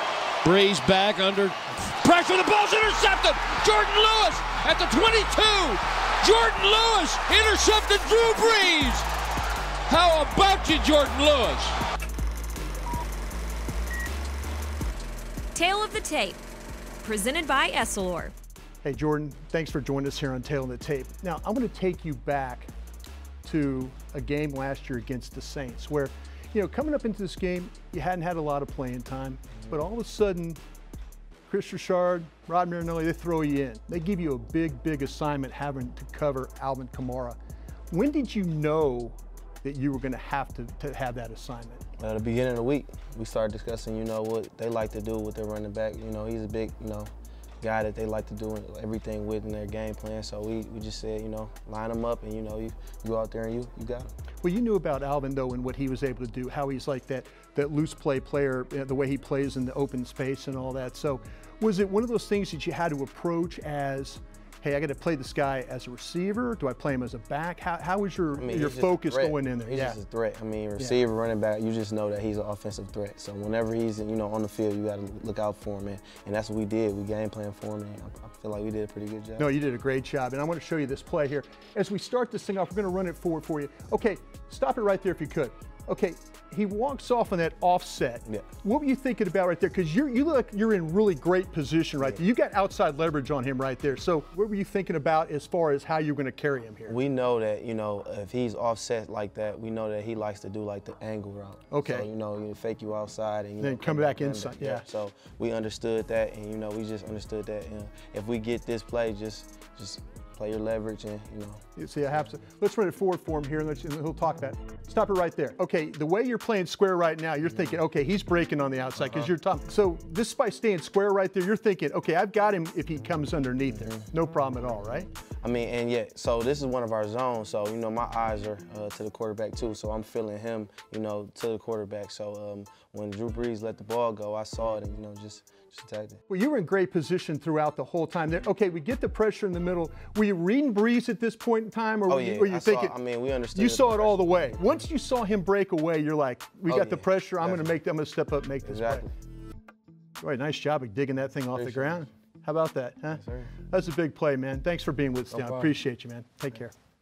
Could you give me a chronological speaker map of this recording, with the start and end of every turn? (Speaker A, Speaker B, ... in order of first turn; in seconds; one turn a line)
Speaker A: 0.4-9.1
Speaker A: 9.9-11.7
Speaker B: 15.6-16.4
Speaker B: 17.0-18.3
Speaker C: 18.8-22.7
Speaker C: 23.4-30.6
Speaker C: 31.5-37.4
Speaker C: 37.9-41.9
Speaker D: 42.0-54.1
Speaker C: 54.4-70.0
Speaker D: 68.4-79.5
Speaker C: 79.4-97.0
Speaker D: 96.9-111.6
Speaker C: 101.7-102.1
Speaker C: 103.6-104.9
Speaker C: 111.8-125.1
Speaker D: 125.4-136.2
Speaker C: 136.3-143.0
Speaker D: 142.1-144.3
Speaker C: 143.5-149.1
Speaker D: 146.7-147.7
Speaker D: 148.7-149.1
Speaker C: 150.2-156.7
Speaker D: 151.5-152.1
Speaker D: 153.2-153.5
Speaker D: 155.3-155.7